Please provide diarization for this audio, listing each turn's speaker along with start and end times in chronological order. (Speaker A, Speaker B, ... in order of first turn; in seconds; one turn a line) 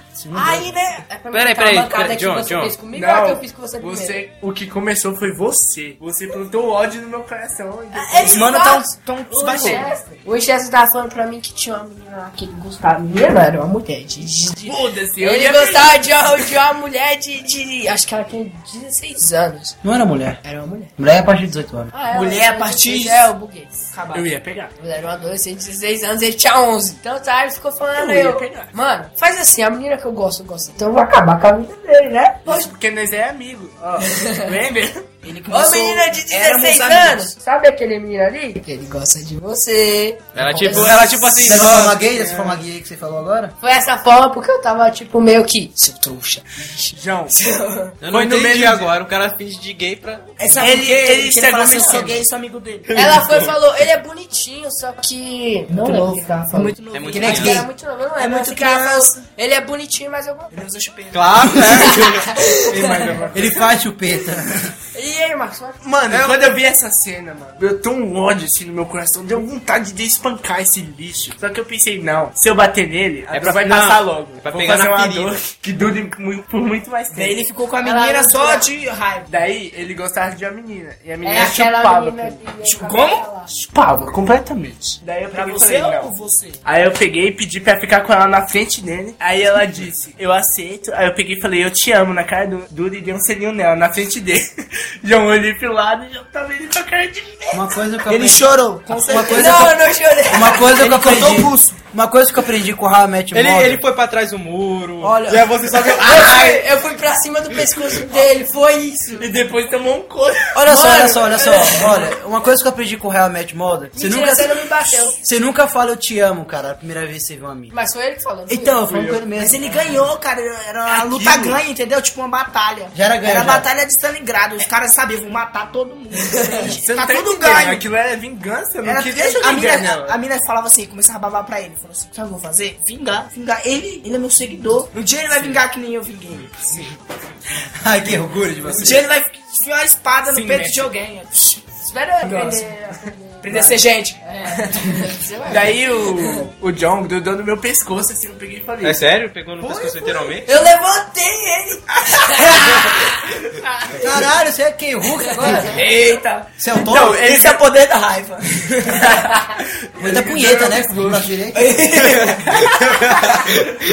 Speaker A: 0.2-0.7
Speaker B: 0.3-4.2
Speaker C: 1.3-2.8
Speaker D: 2.9-8.6
Speaker B: 7.9-19.8
Speaker E: 8.2-10.0
Speaker D: 9.5-9.8
Speaker D: 14.6-16.1
Speaker A: 19.8-20.4
Speaker B: 20.4-20.9
Speaker A: 21.0-21.9
Speaker B: 21.9-23.9
Speaker E: 22.1-23.3
Speaker E: 23.9-24.3
Speaker D: 24.1-24.7
Speaker B: 24.8-32.7
Speaker D: 27.9-28.7
Speaker D: 32.5-35.0
Speaker B: 34.1-34.5
Speaker E: 35.2-37.3
Speaker B: 35.5-41.1
Speaker C: 40.3-42.0
Speaker E: 40.6-40.9
Speaker A: 41.4-43.5
Speaker D: 41.6-42.6
Speaker B: 43.6-47.9
Speaker D: 46.9-47.4
Speaker C: 48.0-50.3
Speaker D: 48.1-48.9
Speaker E: 50.4-52.9
Speaker D: 50.6-52.2
Speaker C: 52.9-53.5
Speaker B: 52.9-60.6
Speaker E: 55.7-57.6
Speaker C: 56.9-57.6
Speaker A: 57.1-57.6
Speaker E: 58.2-59.2
Speaker E: 60.5-61.9
Speaker C: 61.1-63.4
Speaker B: 61.7-63.2
Speaker D: 62.8-63.4
Speaker A: 63.3-64.7
Speaker B: 64.9-65.8
Speaker D: 65.8-77.4
Speaker C: 66.1-66.5
Speaker C: 73.3-75.4
Speaker E: 77.1-79.3
Speaker B: 77.8-78.7
Speaker D: 79.3-82.4
Speaker B: 81.2-83.5
Speaker E: 82.6-83.2
Speaker D: 83.5-86.1
Speaker E: 85.3-86.6
Speaker D: 86.6-94.5
Speaker D: 95.0-97.7
Speaker A: 97.5-103.8
Speaker E: 98.1-99.7
Speaker B: 99.3-100.7
Speaker E: 100.7-101.8
Speaker C: 103.3-106.8
Speaker A: 105.0-106.0
Speaker B: 106.0-109.3
Speaker C: 107.7-108.0
Speaker D: 109.2-110.6
Speaker A: 110.5-117.7
Speaker B: 110.7-112.1
Speaker B: 114.0-115.1
Speaker B: 117.7-118.8
Speaker A: 118.5-119.6
Speaker D: 118.9-119.2
Speaker E: 119.4-127.8
Speaker A: 121.1-121.5
Speaker A: 122.9-123.7
Speaker B: 126.3-126.6
Speaker D: 126.6-130.2
Speaker E: 128.8-136.9
Speaker D: 135.3-135.6
Speaker A: 137.8-139.1
Speaker E: 138.7-141.6
Speaker D: 140.2-140.9
Speaker B: 141.8-146.5
Speaker E: 142.3-142.5
Speaker E: 143.4-144.2
Speaker D: 145.5-149.0
Speaker C: 148.8-150.6
Speaker B: 150.4-153.2
Speaker A: 154.0-155.8
Speaker E: 155.6-159.2
Speaker A: 156.6-157.3
Speaker D: 156.9-157.6
Speaker D: 158.8-159.3
Speaker D: 160.0-161.2
Speaker A: 160.0-161.8
Speaker E: 161.5-163.5
Speaker C: 162.2-163.4